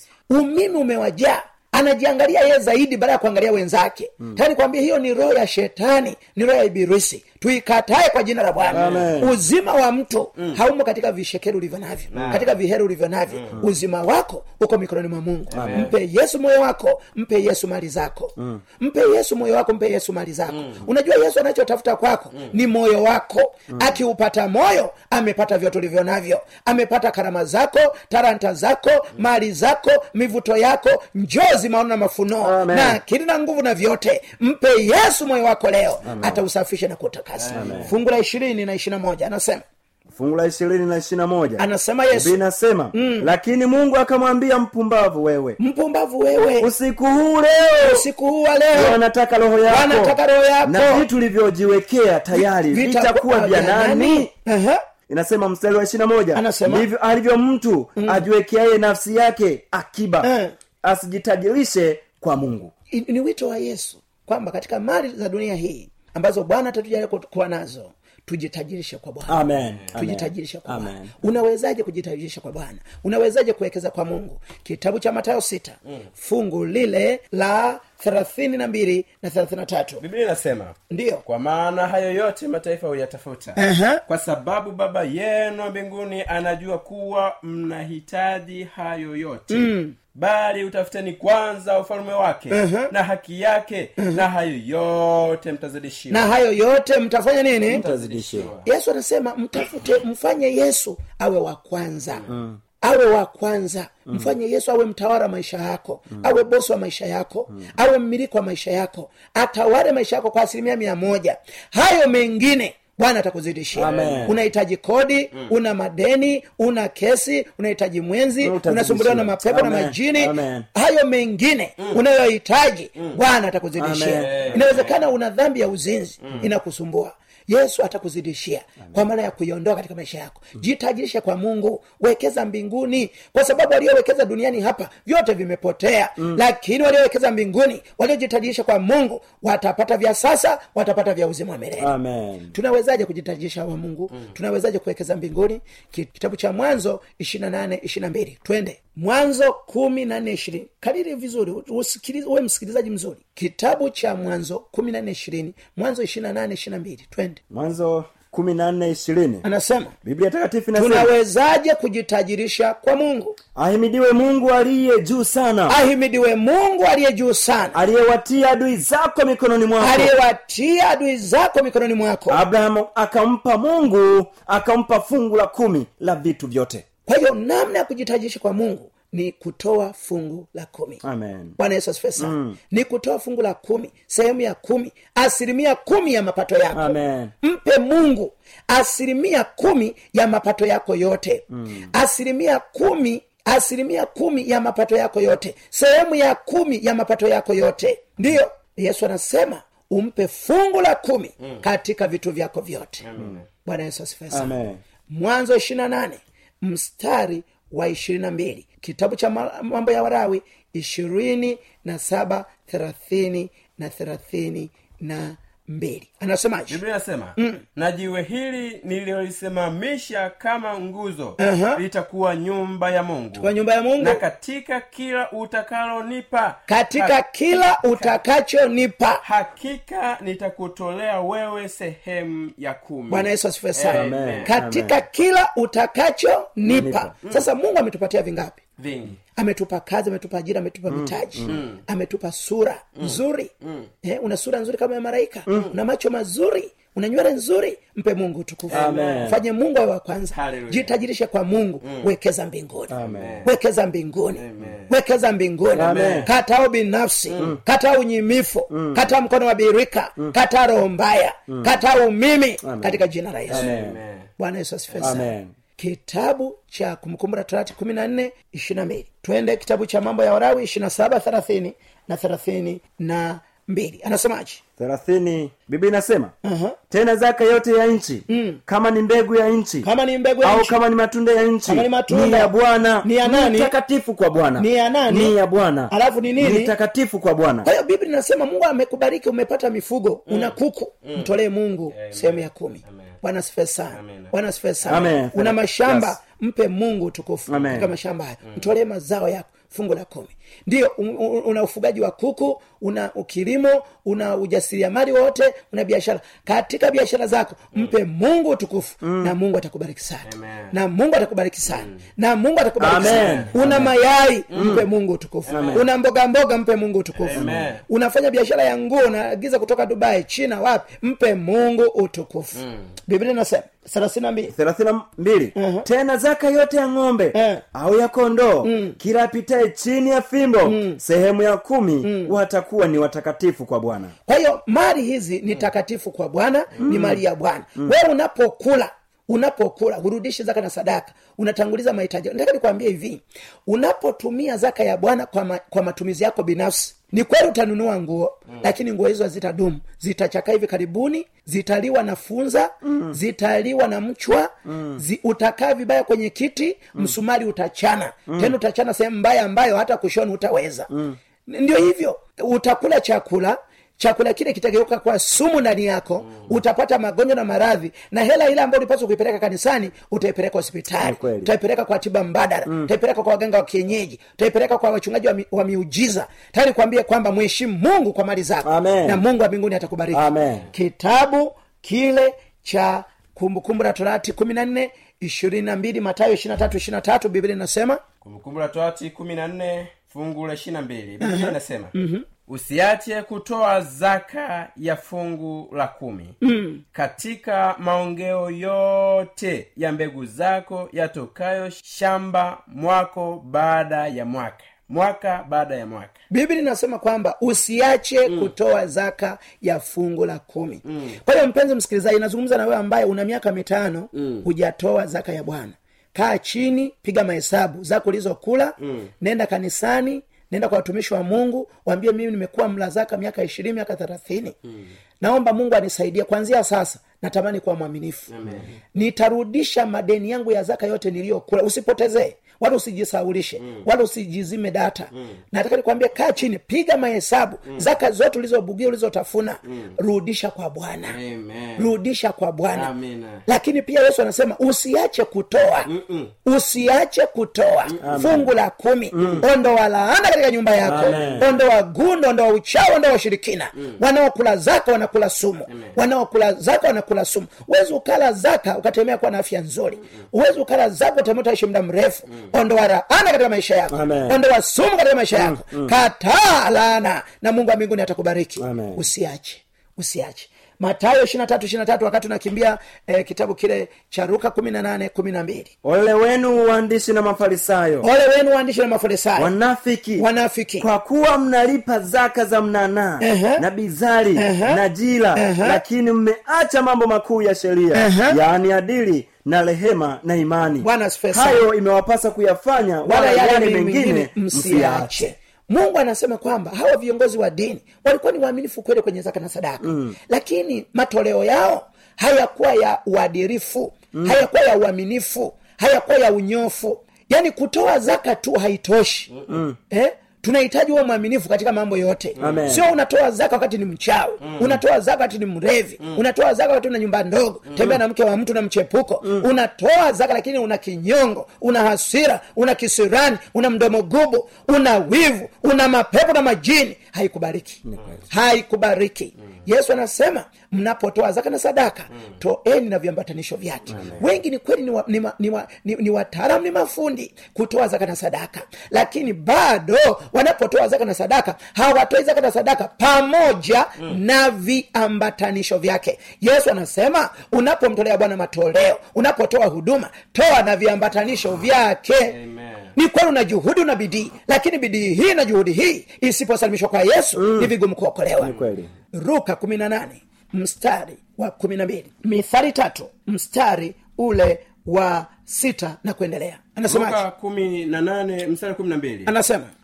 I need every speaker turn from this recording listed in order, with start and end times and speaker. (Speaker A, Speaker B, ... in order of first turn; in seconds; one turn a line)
Speaker A: 0.3-39.6
Speaker B: 8.6-9.1
Speaker C: 8.7-9.4
Speaker B: 12.1-12.6
Speaker B: 13.3-13.6
Speaker B: 15.5-15.9
Speaker C: 15.5-15.9
Speaker B: 20.5-20.8
Speaker C: 32.4-33.0
Speaker C: 36.0-36.4
Speaker B: 37.3-37.9
Speaker C: 37.5-37.9
Speaker C: 40.1-45.6
Speaker A: 41.6-42.4
Speaker A: 42.9-43.3
Speaker A: 45.6-46.7
Speaker C: 46.6-48.1
Speaker A: 47.8-49.0
Speaker C: 48.7-54.3
Speaker A: 49.7-51.0
Speaker A: 52.4-54.8
Speaker C: 55.1-60.3
Speaker A: 56.3-56.9
Speaker A: 58.0-58.2
Speaker A: 60.2-60.5
Speaker C: 60.8-62.7
Speaker A: 62.9-80.0
Speaker C: 69.3-71.1
Speaker B: 80.0-80.7
Speaker A: 80.9-81.2
Speaker B: 81.2-96.3
Speaker A: 83.6-84.0
Speaker A: 89.5-89.9
Speaker A: 92.5-92.9
Speaker A: 96.1-97.8
Speaker B: 97.6-98.7
Speaker C: 97.7-98.5
Speaker A: 98.6-102.2
Speaker C: 102.3-102.6
Speaker A: 102.8-141.9
Speaker C: 113.8-114.4
Speaker B: 113.8-114.4
Speaker C: 118.4-120.7
Speaker C: 123.8-124.6
Speaker B: 124.2-125.0
Speaker C: 141.8-142.5
Speaker A: 142.5-157.4
Speaker C: 157.5-159.4
Speaker A: 159.4-159.9
Speaker C: 160.0-161.1
Speaker A: 160.7-163.4
Speaker C: 163.5-165.8
Speaker A: 165.7-167.8
Speaker C: 167.7-170.1
Speaker A: 169.8-172.4
Speaker C: 172.3-176.8
Speaker A: 177.1-181.0
Speaker C: 181.0-181.6
Speaker A: 181.6-203.0
Speaker C: 182.2-182.6
Speaker C: 186.7-187.3
Speaker C: 191.5-191.9
Speaker B: 203.0-203.4
Speaker A: 203.6-216.8
Speaker C: 204.3-204.8
Speaker B: 216.7-228.1
Speaker A: 217.4-217.6
Speaker A: 221.4-221.8
Speaker A: 223.4-224.2
Speaker A: 226.7-229.2
Speaker B: 229.2-234.5
Speaker A: 233.1-238.6
Speaker C: 233.9-235.0
Speaker C: 236.6-237.1
Speaker B: 238.8-239.2
Speaker A: 239.3-243.5
Speaker C: 240.9-241.6
Speaker B: 241.5-241.8
Speaker B: 243.0-243.9
Speaker A: 244.0-263.7
Speaker B: 248.7-249.4
Speaker C: 248.7-249.4
Speaker B: 250.3-250.9
Speaker B: 251.8-252.1
Speaker C: 252.9-253.4
Speaker B: 253.0-253.5
Speaker B: 254.3-254.9
Speaker C: 255.7-256.3
Speaker B: 255.8-256.3
Speaker B: 257.3-257.6
Speaker C: 258.7-259.1
Speaker C: 261.5-261.8
Speaker C: 262.6-264.0
Speaker B: 263.5-264.3
Speaker A: 264.4-274.6
Speaker C: 265.0-265.6
Speaker C: 274.8-276.3
Speaker A: 276.4-276.8
Speaker C: 276.9-279.9
Speaker A: 278.3-278.6
Speaker A: 279.8-280.8
Speaker C: 280.4-287.7
Speaker A: 281.7-283.7
Speaker A: 284.6-285.3
Speaker A: 285.9-286.7
Speaker A: 287.6-324.5
Speaker B: 290.3-291.4
Speaker B: 291.9-293.1
Speaker B: 293.9-294.3
Speaker C: 294.8-296.2
Speaker C: 297.5-297.9
Speaker B: 297.5-297.9
Speaker C: 309.0-309.4
Speaker B: 310.2-310.7
Speaker B: 311.7-312.0
Speaker C: 312.8-313.9
Speaker B: 312.9-313.5
Speaker B: 314.5-314.8
Speaker C: 314.5-314.9
Speaker B: 315.5-315.9
Speaker C: 315.5-315.8
Speaker B: 317.2-317.8
Speaker C: 317.3-317.7
Speaker B: 322.5-322.9
Speaker C: 324.5-334.1
Speaker A: 325.6-325.9
Speaker A: 327.3-327.6
Speaker A: 328.6-328.9
Speaker A: 330.6-331.0
Speaker A: 332.0-332.3
Speaker A: 334.2-360.9
Speaker C: 336.8-337.2
Speaker C: 352.9-353.2
Speaker C: 354.7-355.0
Speaker C: 358.3-358.6
Speaker C: 360.9-361.2
Speaker A: 361.5-388.0
Speaker C: 371.0-371.5
Speaker C: 372.6-372.9
Speaker C: 378.6-379.2
Speaker C: 380.1-380.7
Speaker B: 388.2-391.9
Speaker A: 391.2-392.2
Speaker B: 392.5-396.4
Speaker A: 396.4-396.8
Speaker B: 396.9-406.2
Speaker A: 406.3-424.6
Speaker B: 408.3-408.5
Speaker B: 410.9-411.1
Speaker B: 414.2-414.4
Speaker B: 418.8-419.1
Speaker A: 425.2-428.3
Speaker B: 428.3-428.8
Speaker A: 428.9-441.2
Speaker B: 441.1-441.9
Speaker A: 441.8-442.9
Speaker B: 442.7-443.4
Speaker A: 443.4-445.9
Speaker B: 445.9-446.3
Speaker A: 446.4-475.7
Speaker C: 448.0-448.5
Speaker C: 449.1-449.4
Speaker C: 450.8-451.5
Speaker B: 451.0-451.4
Speaker B: 455.7-455.9
Speaker C: 463.9-464.4
Speaker C: 465.3-465.9
Speaker C: 468.6-469.0
Speaker C: 475.8-478.1
Speaker A: 478.0-479.5
Speaker C: 479.4-480.2
Speaker A: 480.2-480.9
Speaker C: 480.8-495.2
Speaker A: 483.2-483.6
Speaker A: 484.4-484.8
Speaker A: 485.4-485.8
Speaker A: 487.9-488.4
Speaker A: 490.8-491.6
Speaker A: 493.0-509.3
Speaker C: 499.8-500.1
Speaker C: 504.1-504.4
Speaker C: 509.5-509.8
Speaker A: 509.9-552.4
Speaker B: 512.4-512.6
Speaker C: 512.4-512.9
Speaker B: 514.4-514.8
Speaker B: 517.7-518.0
Speaker C: 527.8-528.1
Speaker B: 533.9-534.2
Speaker B: 552.3-552.9
Speaker A: 553.0-558.6
Speaker C: 557.4-557.7
Speaker C: 558.4-558.9
Speaker A: 559.1-567.2
Speaker B: 566.9-569.3
Speaker A: 569.3-569.7